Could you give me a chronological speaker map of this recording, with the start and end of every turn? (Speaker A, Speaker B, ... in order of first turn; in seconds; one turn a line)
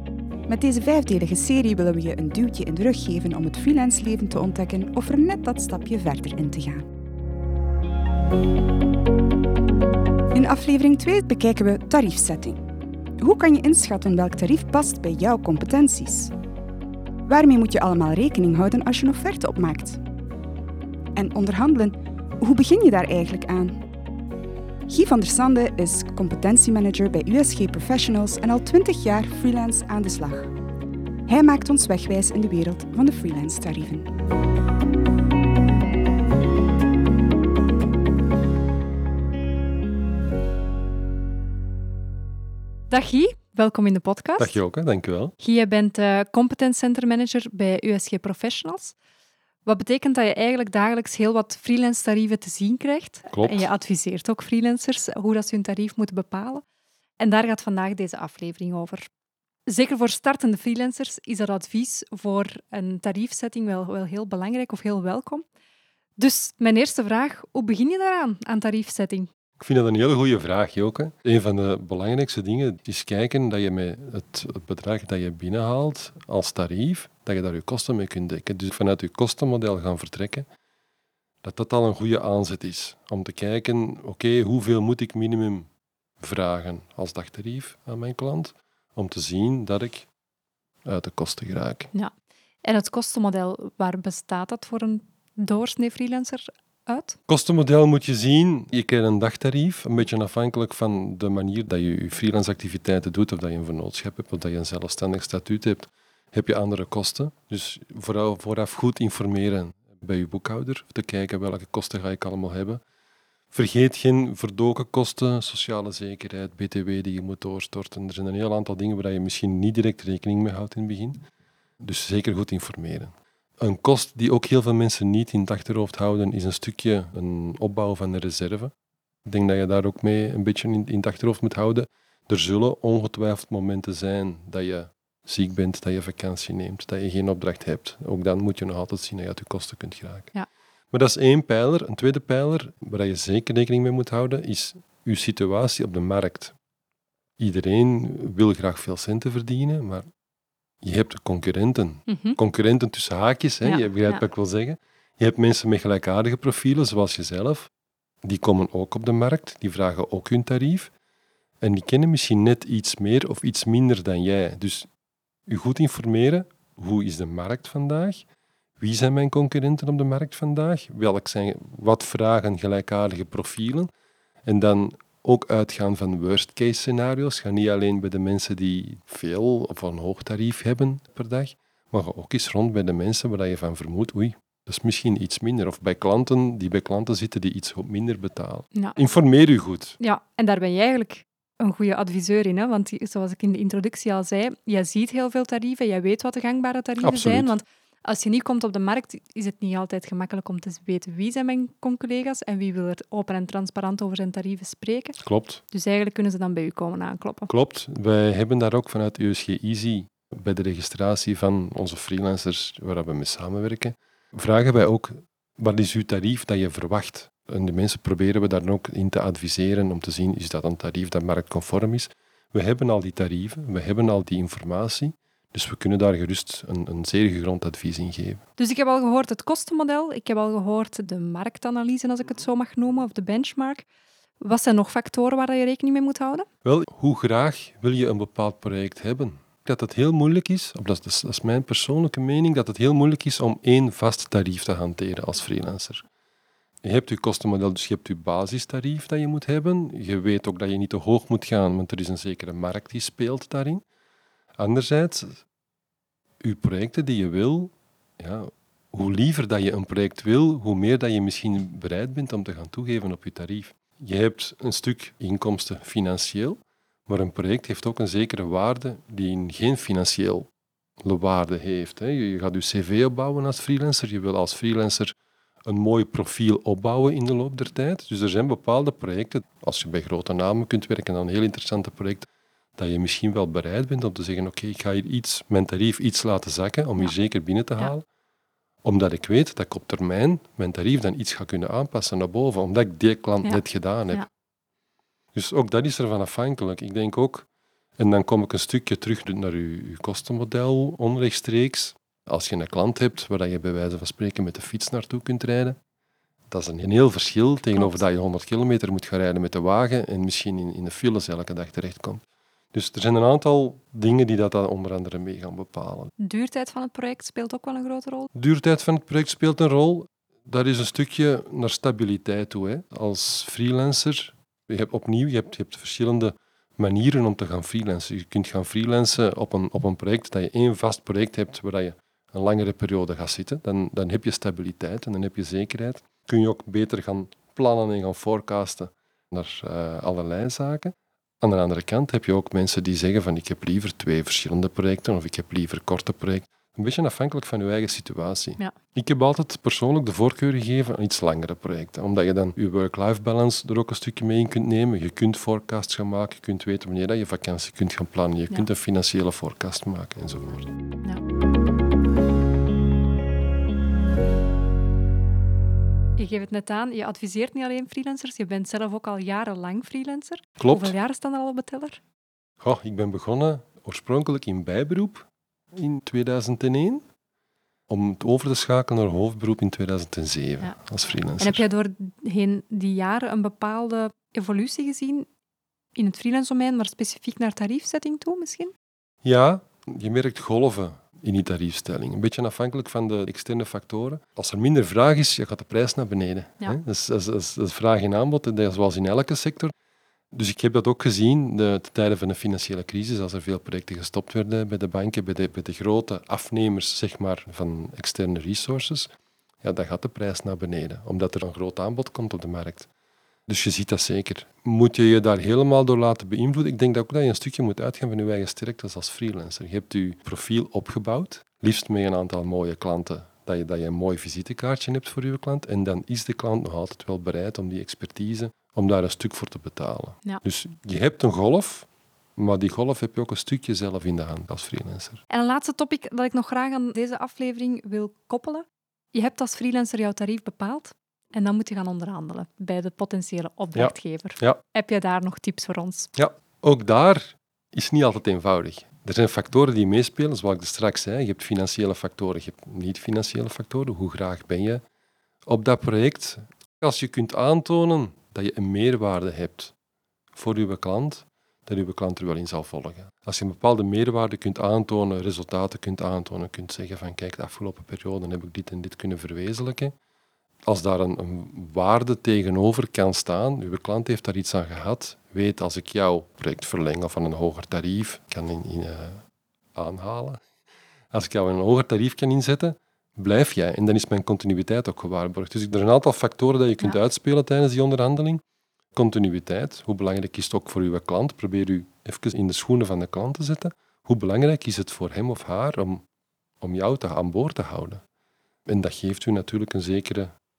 Speaker A: 0.5-6.8
Speaker A: 10.3-12.6
Speaker A: 13.2-16.3
Speaker A: 17.2-20.0
Speaker A: 21.1-23.8
Speaker A: 24.9-30.5
Speaker A: 31.3-34.1
Speaker B: 42.9-44.6
Speaker C: 44.4-45.3
Speaker B: 45.4-49.0
Speaker B: 49.6-56.6
Speaker C: 53.3-53.7
Speaker B: 57.2-59.1
Speaker B: 59.6-65.5
Speaker B: 66.2-69.3
Speaker C: 69.6-80.5
Speaker C: 81.4-85.7
Speaker C: 86.2-90.1
Speaker C: 90.8-91.9
Speaker B: 91.9-97.2
Speaker C: 97.3-112.8
Speaker C: 113.5-121.2
Speaker C: 121.8-128.7
Speaker C: 129.2-140.3
Speaker C: 140.9-146.5
Speaker C: 147.4-150.1
Speaker C: 150.8-157.7
Speaker B: 152.1-152.4
Speaker B: 153.6-154.2
Speaker C: 158.2-160.9
Speaker C: 161.6-164.9
Speaker C: 165.5-168.2
Speaker C: 168.8-173.9
Speaker C: 174.4-190.0
Speaker B: 188.7-189.0
Speaker B: 190.0-207.5
Speaker C: 197.0-197.5
Speaker C: 205.2-205.6
Speaker C: 207.5-228.4
Speaker B: 228.6-233.8
Speaker B: 234.4-236.5
Speaker C: 236.6-246.1
Speaker C: 246.8-253.8
Speaker C: 254.6-255.4
Speaker C: 256.4-270.5
Speaker C: 271.0-275.1
Speaker C: 275.6-288.0
Speaker C: 288.8-294.2
Speaker B: 293.4-294.3
Speaker C: 295.3-297.5
Speaker C: 298.0-305.8
Speaker C: 306.5-312.2
Speaker B: 307.7-308.1
Speaker C: 312.7-316.1
Speaker B: 316.2-318.3
Speaker C: 318.3-360.7
Speaker B: 366.2-372.0
Speaker C: 370.6-370.9
Speaker C: 372.6-377.0
Speaker C: 377.9-381.7
Speaker B: 381.4-385.3
Speaker B: 385.9-388.7
Speaker C: 389.2-399.7
Speaker C: 400.3-409.1
Speaker C: 409.6-412.9
Speaker C: 413.5-435.2
Speaker B: 435.3-446.1
Speaker C: 443.7-444.6
Speaker C: 446.1-454.8
Speaker C: 455.4-459.7
Speaker C: 460.3-469.9
Speaker C: 470.7-479.2
Speaker C: 479.8-480.4
Speaker C: 481.1-488.4
Speaker C: 488.9-496.0
Speaker C: 496.6-498.0
Speaker C: 498.7-500.3